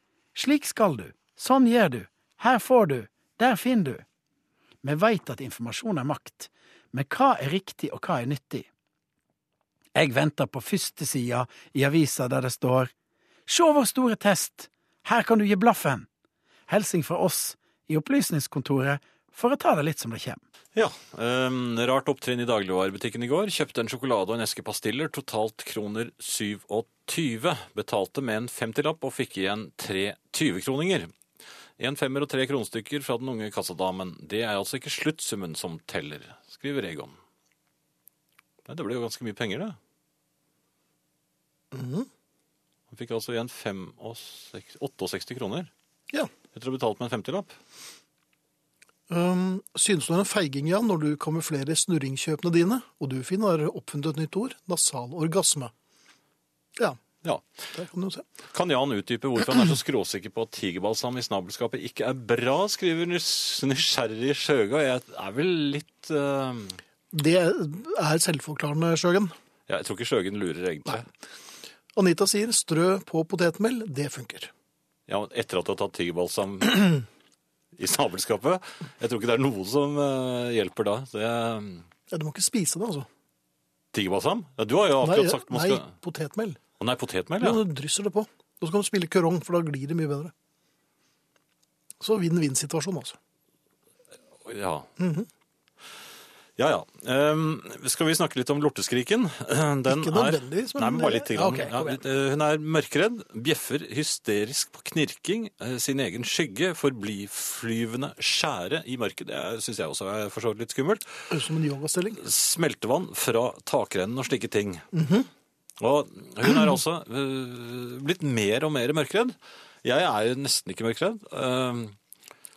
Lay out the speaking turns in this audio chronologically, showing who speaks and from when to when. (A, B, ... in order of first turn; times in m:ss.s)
0:00.3-0:04.0 A
0:04.8-0:08.7 A
0:09.9-0:12.9 A
0:13.5-0:16.1 A
0:16.7-0:20.4 A
0:20.7-0:31.1 B
0:31.8-0:37.2 B
0:38.6-0:39.8 B
0:41.7-0:42.1 C
0:42.9-0:45.7 B
0:46.5-0:47.5 B
0:49.1-0:55.7 C
0:57.7-0:58.2 C
0:58.5-1:06.8 B
1:07.1-1:09.3 C
1:09.7-1:11.1 B
1:11.9-1:14.5 C
1:15.1-1:17.0 B
1:17.8-1:21.8 B
1:22.1-1:23.1 C
1:23.9-1:25.9 B
1:25.0-1:26.6 C
1:26.8-1:27.6 B
1:27.4-1:30.3 C
1:32.0-1:33.2 C
1:34.4-1:34.9 B
1:35.0-1:35.3 C
1:36.6-1:51.3 B
1:39.9-1:42.0 C
1:51.3-1:52.2 C
1:52.2-1:54.8 B
1:54.9-1:55.3 C
1:55.8-2:02.0 B